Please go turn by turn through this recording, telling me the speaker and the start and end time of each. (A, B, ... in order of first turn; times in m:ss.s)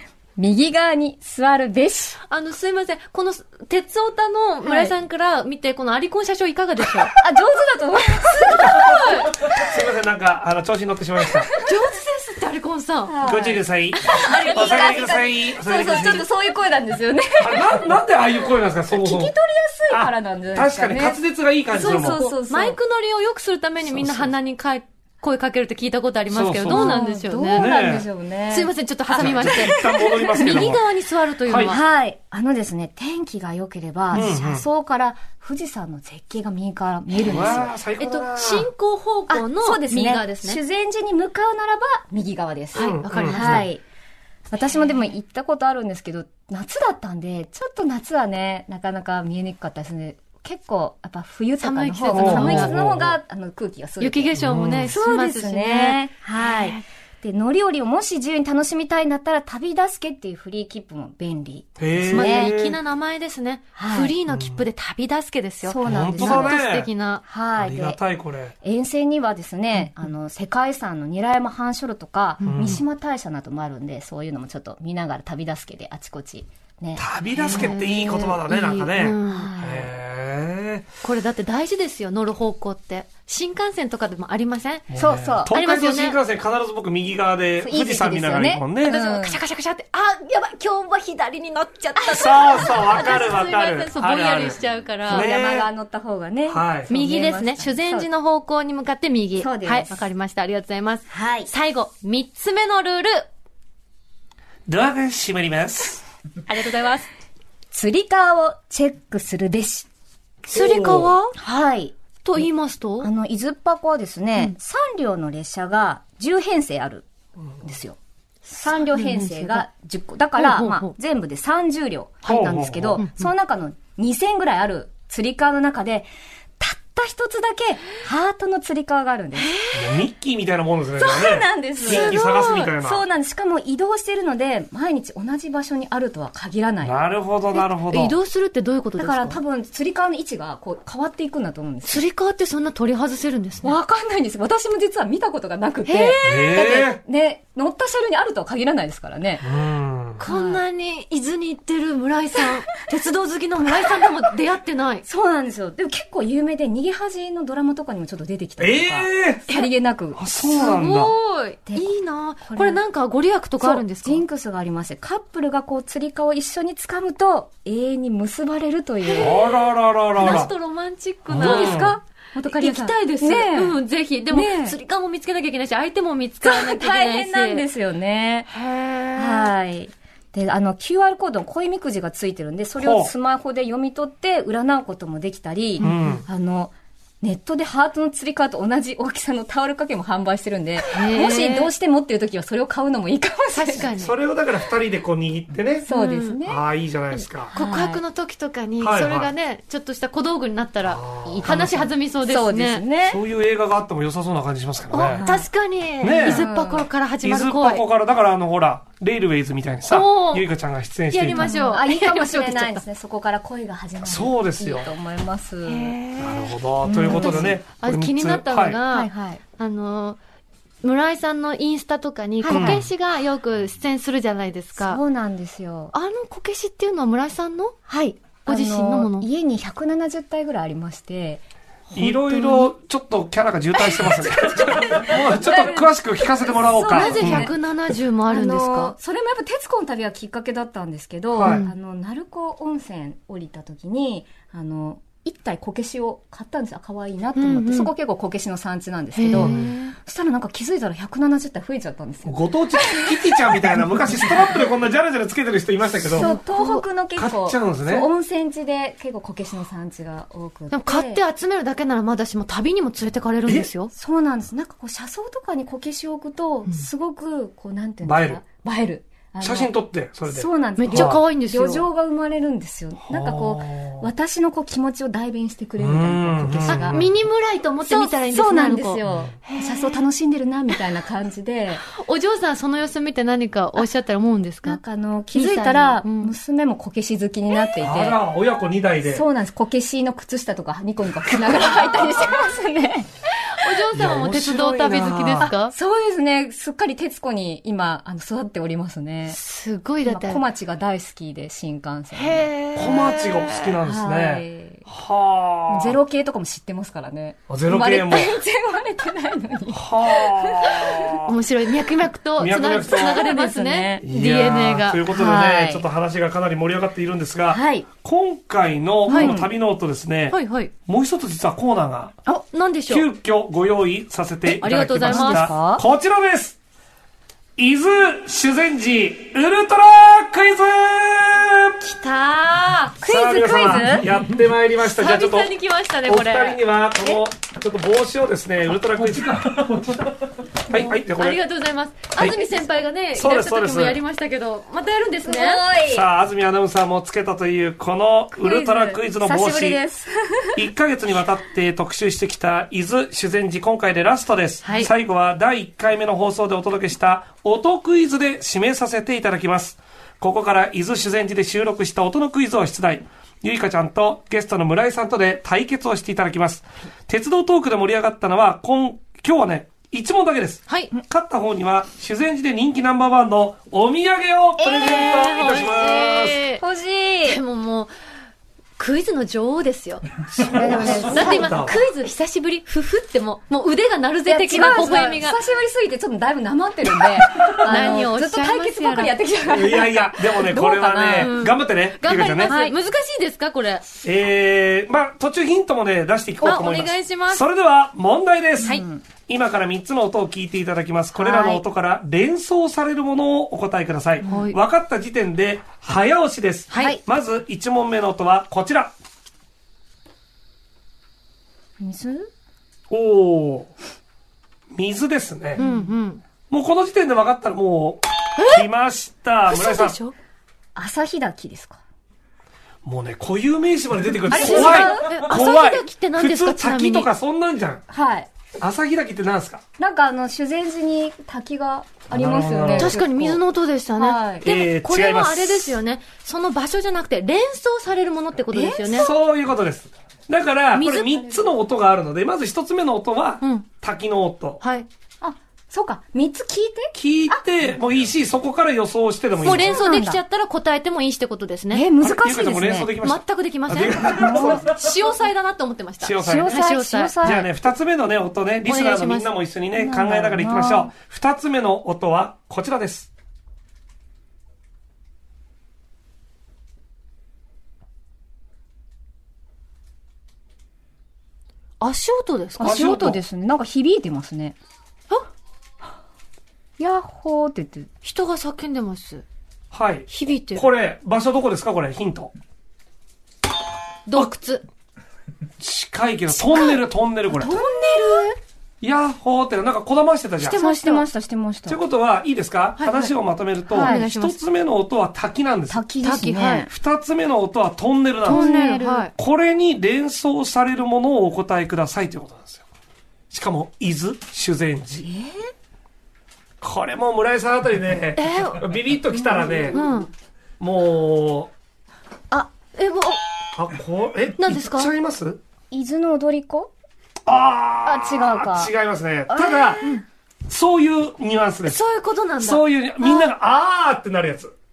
0:00.4-0:02.2 A
0:02.3-0:07.1 B
0:04.6-0:04.9 A
0:07.1-0:09.7 A
0:08.4-0:09.3 B
0:09.3-0:11.5 C
0:11.3-0:11.6 A
0:11.6-0:13.2 B
0:13.0-0:18.0 A
0:13.2-0:16.2 C
0:14.0-0:15.2 B
0:17.4-0:19.3 C
0:18.9-0:21.2 A
0:19.9-0:22.2 C
0:21.7-0:27.7 B
0:21.8-0:22.8 A
0:23.9-0:24.3 C
0:26.3-0:28.0 C
0:26.7-0:30.7 A
0:28.5-0:31.8 B
0:29.2-0:30.8 C
0:31.4-0:31.7 C
0:31.6-0:37.8 A
0:34.1-0:34.6 C
0:37.2-0:38.7 C
0:38.0-0:40.6 B
0:39.3-0:43.8 A
0:42.7-0:43.6 B
0:42.8-0:43.7 C
0:44.5-1:02.5 A
0:51.6-0:52.7 B
0:52.1-0:53.2 C
0:54.0-0:56.8 B
0:54.4-0:54.9 C
1:01.8-1:02.8 C
1:02.1-1:07.2 B
1:03.8-1:04.2 A
1:04.3-1:04.6 C
1:05.6-1:06.6 A
1:05.8-1:06.9 C
1:07.2-1:08.0 A
1:07.6-1:08.5 C
1:08.6-1:17.8 A
1:12.4-1:12.8 B
1:12.4-1:12.8 C
1:17.0-1:20.9 C
1:17.5-1:19.5 B
1:19.2-1:19.9 A
1:21.0-1:24.9 B
1:24.9-1:29.0 C
1:25.0-1:25.5 A
1:25.5-1:26.2 B
1:27.6-1:29.4 A
1:28.9-1:35.3 B
1:32.0-1:33.4 A
1:32.1-1:34.6 C
1:35.1-1:38.1 A
1:35.1-1:35.7 C
1:36.5-1:36.9 C
1:36.9-1:43.3 B
1:39.4-1:40.0 A
1:41.1-1:41.5 A
1:44.7-1:46.0 C
1:46.5-1:47.1 B
1:47.7-1:49.9 A
1:50.5-1:51.3 B
1:50.5-1:51.1 C
1:51.4-1:52.5 A
1:52.2-1:53.1 B
1:53.0-1:57.0 A
1:57.6-2:09.5 A
1:58.9-1:59.6 B
2:00.4-2:00.9 B
2:02.2-2:03.0 C
2:03.0-2:03.3 B
2:09.4-2:10.0 B
2:09.7-2:13.0 C
2:11.0-2:16.9 A
2:11.8-2:12.7 B
2:16.8-2:18.1 C
2:17.6-2:19.4 B
2:19.0-2:22.0 A
2:21.8-2:23.7 B
2:23.6-2:29.4 A
2:25.8-2:26.5 B
2:26.2-2:27.0 C
2:29.4-2:30.2 C
2:30.2-2:35.0 B
2:30.2-2:30.6 A
2:33.7-2:34.1 A
2:35.0-2:40.6 A
2:38.6-2:39.4 C
2:40.1-2:41.1 C
2:40.4-2:44.2 B
2:42.4-2:42.8 A
2:43.6-2:49.4 A
2:49.0-2:49.5 B
2:49.2-2:50.5 C
2:50.2-2:57.6 B
2:50.2-2:50.5 A
2:51.3-2:52.0 C
2:51.3-2:54.8 A
2:56.4-2:58.5 A
2:58.5-2:59.5 B
2:59.1-3:13.9 A
3:02.8-3:03.1 C
3:05.8-3:06.2 B
3:05.8-3:06.2 C
3:10.8-3:11.7 B
3:13.5-3:14.2 B
3:14.0-3:15.9 C
3:15.8-3:16.6 A
3:15.9-3:16.4 B
3:16.4-3:17.5 C
3:17.5-3:18.0 A
3:17.5-3:22.8 B
3:18.8-3:19.3 C
3:20.8-3:21.6 C
3:21.2-3:23.2 A
3:23.0-3:25.2 C
3:24.9-3:27.8 B
3:25.1-3:25.5 A
3:26.0-3:26.5 C
3:26.2-3:26.9 A
3:27.2-3:31.6 C
3:29.9-3:30.5 B
3:31.1-3:32.8 B
3:31.4-3:36.0 A
3:34.0-3:34.9 C
3:35.6-3:40.2 B
3:36.2-3:38.8 C
3:36.8-3:37.6 A
3:38.9-3:39.4 A
3:40.8-3:45.0 B
3:42.4-3:42.8 A
3:42.5-3:42.8 C
3:44.7-3:45.9 A
3:45.9-3:47.8 B
3:47.9-3:52.0 A
3:48.4-3:49.3 B
3:51.9-3:57.5 C
3:52.0-3:52.7 B
3:54.0-3:55.8 B
3:54.5-3:57.5 A
3:56.7-3:58.9 B
3:58.3-4:14.6 A
4:01.3-4:01.6 C
4:01.4-4:01.7 B
4:07.4-4:07.9 B
4:09.1-4:09.9 B
4:09.3-4:09.7 C
4:12.2-4:16.3 C
4:16.1-4:21.2 A
4:16.2-4:16.8 B
4:17.2-4:18.0 C
4:20.7-4:23.9 B
4:23.9-4:29.7 A
4:28.0-4:28.4 C
4:29.4-4:31.2 C
4:30.3-4:37.0 A
4:30.8-4:31.8 B
4:33.1-4:34.1 C
4:35.8-4:37.1 C
4:36.7-4:40.0 B
4:37.8-4:41.8 A
4:39.1-4:39.3 C
4:41.9-4:44.8 B
4:44.6-4:48.2 A
4:45.3-4:46.3 B
4:47.8-4:49.2 C
4:49.0-4:53.1 A
4:53.4-4:55.7 B
4:53.9-4:55.5 C
4:55.4-4:59.4 A
4:59.3-5:00.4 B
5:00.0-5:02.5 A
5:02.1-5:03.7 B
5:02.7-5:06.0 C
5:03.8-5:04.9 A
5:05.7-5:11.2 A
5:07.5-5:08.4 C
5:09.7-5:11.3 C
5:10.9-5:15.0 B
5:12.4-5:13.2 C
5:12.9-5:14.0 A
5:14.0-5:22.2 C
5:15.1-5:15.8 A
5:17.5-5:17.9 A
5:19.1-5:19.5 A
5:19.1-5:19.4 B
5:20.3-5:20.7 B
5:22.3-5:23.1 B
5:22.9-5:26.6 C
5:24.6-5:25.5 B
5:25.0-5:25.8 A
5:27.6-5:31.8 C
5:31.8-5:33.0 B
5:33.0-5:34.1 A
5:33.0-5:41.4 C
5:34.8-5:36.6 B
5:41.0-5:45.6 B
5:42.2-5:42.4 C
5:43.1-5:44.0 C
5:45.2-5:46.1 A
5:45.8-5:49.8 C
5:48.4-5:50.7 A
5:50.5-6:16.4 C
5:54.6-5:54.9 B
6:10.7-6:10.9 B
6:14.6-6:15.3 A
6:14.7-6:16.6 B
6:16.6-6:17.4 A
6:17.2-6:17.9 B
6:18.8-6:25.4 B
6:20.3-6:21.8 C
6:20.5-6:21.7 A
6:24.2-6:31.4 A
6:27.5-6:29.2 B
6:29.5-6:32.5 C
6:31.2-6:33.8 B
6:32.4-6:32.7 A
6:34.0-6:48.9 C
6:36.4-6:37.4 B
6:38.6-6:39.0 A
6:41.2-6:41.6 A
6:44.2-6:44.6 B
6:46.7-6:47.0 B
6:46.7-6:47.0 A
6:51.8-6:52.3 A
6:52.9-6:53.7 C
6:54.7-6:55.6 C
6:55.6-6:55.9 A
6:55.6-6:56.2 B
6:56.5-7:00.0 C
6:58.4-6:58.6 B
6:59.5-7:00.1 B
7:00.7-7:01.8 A
7:02.8-7:07.8 C
7:04.2-7:05.3 A
7:04.3-7:07.1 B
7:07.9-7:08.3 A
7:08.6-7:09.6 C
7:09.8-7:13.4 A
7:12.1-7:13.0 C
7:12.7-7:19.1 B
7:14.0-7:14.5 A
7:14.4-7:15.8 C
7:18.5-7:19.1 A
7:18.9-7:24.6 C
7:20.7-7:21.3 B
7:23.4-7:23.7 B
7:24.6-7:24.9 B
7:25.2-7:27.4 A
7:26.9-7:29.8 C
7:29.4-7:30.2 A
7:29.4-7:31.9 B
7:31.7-7:32.9 A
7:32.0-7:34.8 C
7:33.0-7:37.2 B
7:34.0-7:34.7 A
7:36.0-7:36.5 C
7:36.2-7:37.5 A
7:37.2-7:43.1 C
7:38.6-7:39.3 B
7:39.7-7:40.9 A
7:51.8-7:52.8 B
7:52.6-7:54.6 A
7:52.6-7:53.2 C
7:56.8-7:57.9 A
7:58.0-7:59.2 B
7:59.7-8:02.3 C
8:00.1-8:00.7 B
8:04.0-8:04.6 B
8:05.6-8:07.6 C
8:07.4-8:08.3 B
8:07.4-8:08.3 A
8:08.8-8:10.6 C
8:10.4-8:11.1 B
8:10.4-8:11.8 A
8:11.7-8:15.8 C
8:12.8-8:13.1 B
8:13.7-8:14.0 A
8:13.7-8:14.4 B
8:15.7-8:16.7 A
8:16.0-8:16.7 B
8:16.7-8:18.5 C
8:18.2-8:19.1 A
8:18.2-8:19.1 B
8:19.2-8:22.6 C
8:23.3-8:25.1 C
8:25.0-8:25.5 A
8:26.6-8:29.8 C
8:28.2-8:28.6 B
8:29.4-8:29.9 A
8:29.5-8:30.1 B
8:30.6-8:31.5 C
8:32.3-8:33.2 B
8:33.6-8:35.4 C
8:34.4-8:34.9 B
8:35.7-8:36.7 A
8:37.3-8:39.8 C
8:37.8-8:38.7 A
8:39.3-8:40.0 A
8:39.8-8:40.0 B
8:40.5-8:41.8 C
8:41.6-8:43.3 B
8:42.4-8:44.5 C